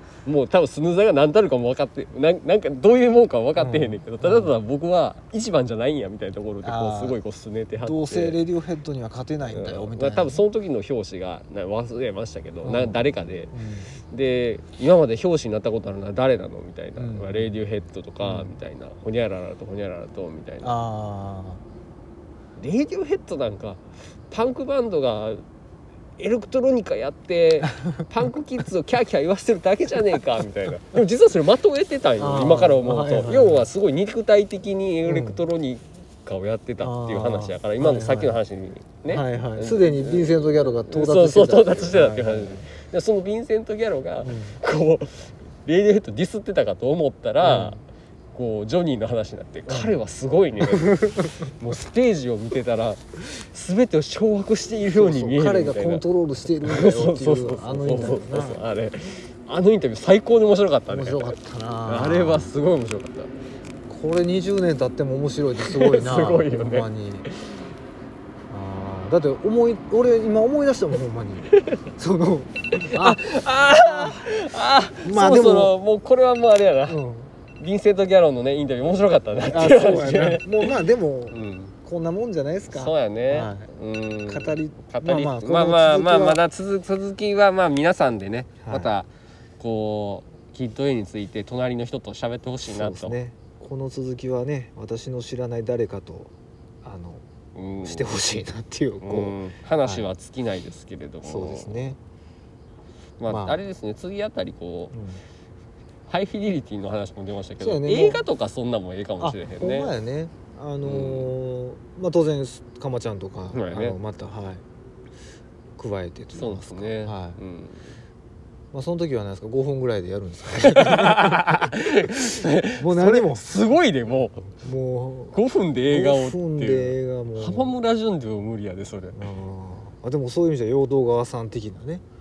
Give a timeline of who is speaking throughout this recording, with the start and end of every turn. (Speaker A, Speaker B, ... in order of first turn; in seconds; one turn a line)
Speaker A: 0.2-8.4
Speaker B: 3.6-4.5
Speaker B: 6.6-7.2
Speaker B: 7.8-10.4
Speaker A: 9.5-13.5
Speaker B: 12.6-13.9
Speaker A: 14.1-20.8
Speaker B: 17.0-17.5
Speaker B: 18.2-18.5
Speaker B: 20.6-21.6
Speaker A: 22.6-25.4
Speaker A: 26.2-47.8
Speaker B: 32.2-33.7
Speaker B: 35.0-35.4
Speaker B: 36.8-38.4
Speaker B: 39.1-42.7
Speaker B: 44.2-44.6
Speaker B: 47.4-47.8
Speaker A: 48.3-63.3
Speaker B: 49.7-50.0
Speaker B: 50.8-51.3
Speaker B: 54.9-58.6
Speaker B: 60.9-62.5
Speaker B: 63.9-67.3
Speaker A: 65.6-67.6
Speaker B: 68.5-74.3
Speaker A: 72.7-77.0
Speaker B: 75.0-75.7
Speaker B: 76.9-77.3
Speaker A: 77.6-80.8
Speaker B: 79.5-83.7
Speaker A: 81.3-81.7
Speaker A: 82.7-93.2
Speaker B: 84.3-86.4
Speaker B: 88.6-88.9
Speaker B: 92.7-97.2
Speaker A: 97.5-98.1
Speaker B: 97.8-100.1
Speaker A: 99.0-101.9
Speaker B: 101.2-102.0
Speaker A: 103.2-104.9
Speaker B: 103.3-103.6
Speaker B: 104.9-105.2
Speaker A: 106.1-109.9
Speaker B: 107.6-108.2
Speaker B: 109.2-114.6
Speaker A: 110.8-111.3
Speaker A: 113.5-114.0
Speaker B: 115.8-117.4
Speaker A: 116.3-118.0
Speaker B: 118.7-123.8
Speaker A: 120.8-124.6
Speaker B: 124.5-127.7
Speaker A: 125.3-129.3
Speaker B: 129.1-132.0